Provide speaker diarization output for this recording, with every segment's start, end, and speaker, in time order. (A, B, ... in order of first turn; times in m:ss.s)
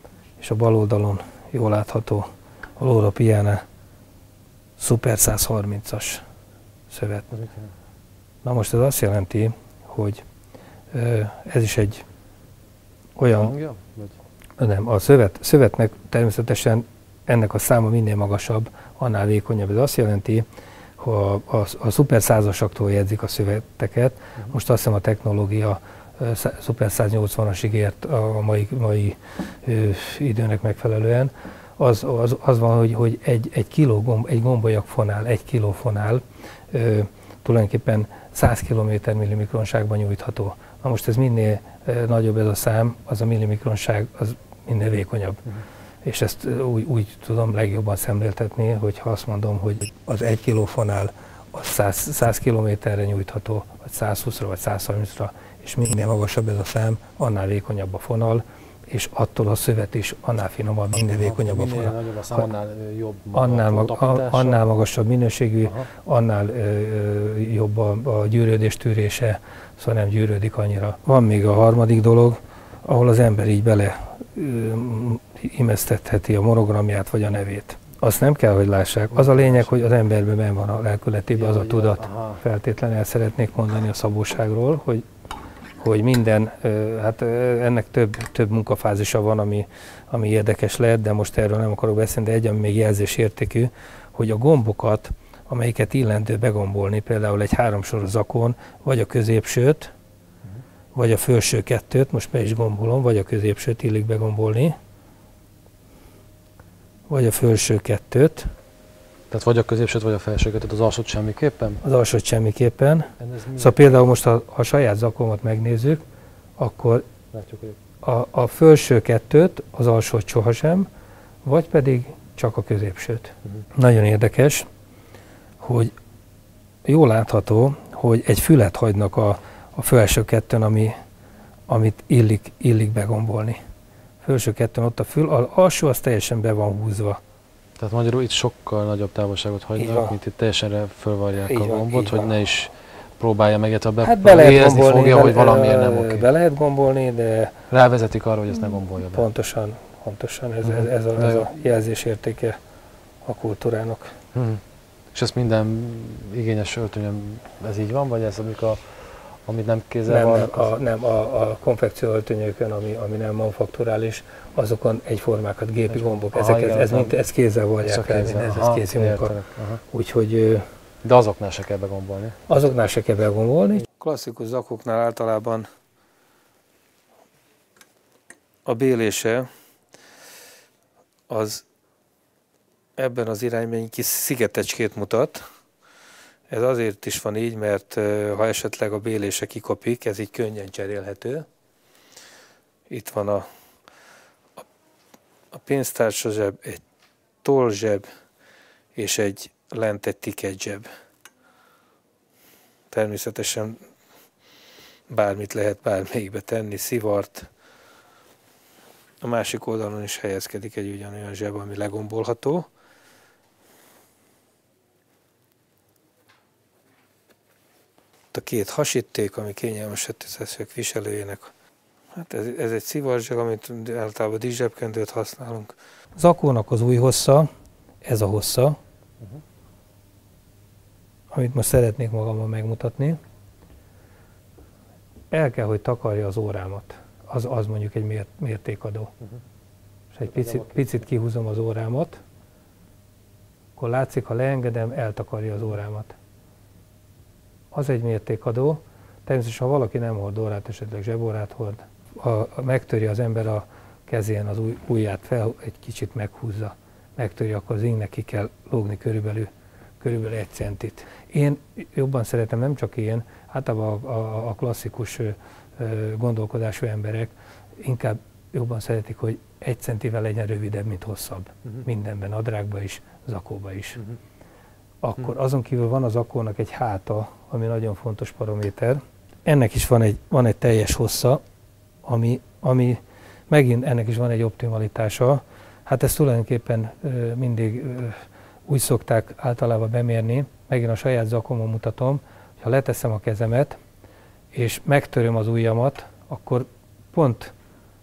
0:00.4-0:03.6 A
0:04.8-0:06.2 A
0:06.9-0:07.3 A
0:07.3-0:07.6 B
0:08.4-0:10.2 A
0:10.9-0:12.0 A
0:13.2-0:13.5 A
0:13.3-0:14.2 B
0:14.6-0:20.4 A
0:21.0-1:02.5 A
1:01.1-1:04.6 B
1:03.3-1:25.0 A
1:19.1-1:19.8 B
1:21.3-1:22.4 B
1:25.8-1:39.9 A
1:40.9-1:44.7 A
1:47.1-1:48.5 A
1:49.3-1:51.8 B
1:51.8-1:56.0 A
1:53.2-1:53.9 B
1:56.6-1:57.1 A
1:57.3-1:57.8 B
1:58.0-2:00.9 A
2:01.4-2:04.7 A
2:05.6-2:05.9 A
2:06.8-2:10.9 A
2:11.7-2:13.6 A
2:14.2-2:17.2 A
2:17.8-2:26.2 B
2:19.8-2:20.2 A
2:21.4-2:22.4 A
2:24.0-2:27.6 A
2:27.7-2:29.2 B
2:29.0-2:32.6 A
2:30.6-2:31.5 B
2:33.2-2:34.2 A
2:34.3-2:34.6 B
2:35.1-2:40.7 B
2:40.1-2:49.4 A
2:46.1-2:47.1 B
2:47.8-2:49.8 B
2:49.9-2:50.6 A
2:51.0-2:52.4 B
2:52.5-2:55.7 A
2:58.6-2:59.5 A
3:01.3-3:01.6 A
3:03.0-3:05.4 A
3:06.5-3:11.4 A
3:12.9-3:13.4 A
3:15.5-3:16.8 A
3:17.4-3:18.1 A
3:18.9-3:20.9 A
3:22.9-3:23.8 A
3:25.1-3:27.5 A
3:29.2-3:32.7 A
3:38.3-3:41.5 A
3:42.1-3:47.5 A
3:48.0-3:48.8 A
3:51.3-3:53.2 A
3:55.3-3:59.1 A
4:00.1-4:02.2 A
4:00.4-4:00.9 B
4:03.8-4:06.1 A
4:07.7-4:34.0 A
4:35.0-4:41.4 A
4:42.0-4:53.8 A
4:54.5-4:57.5 A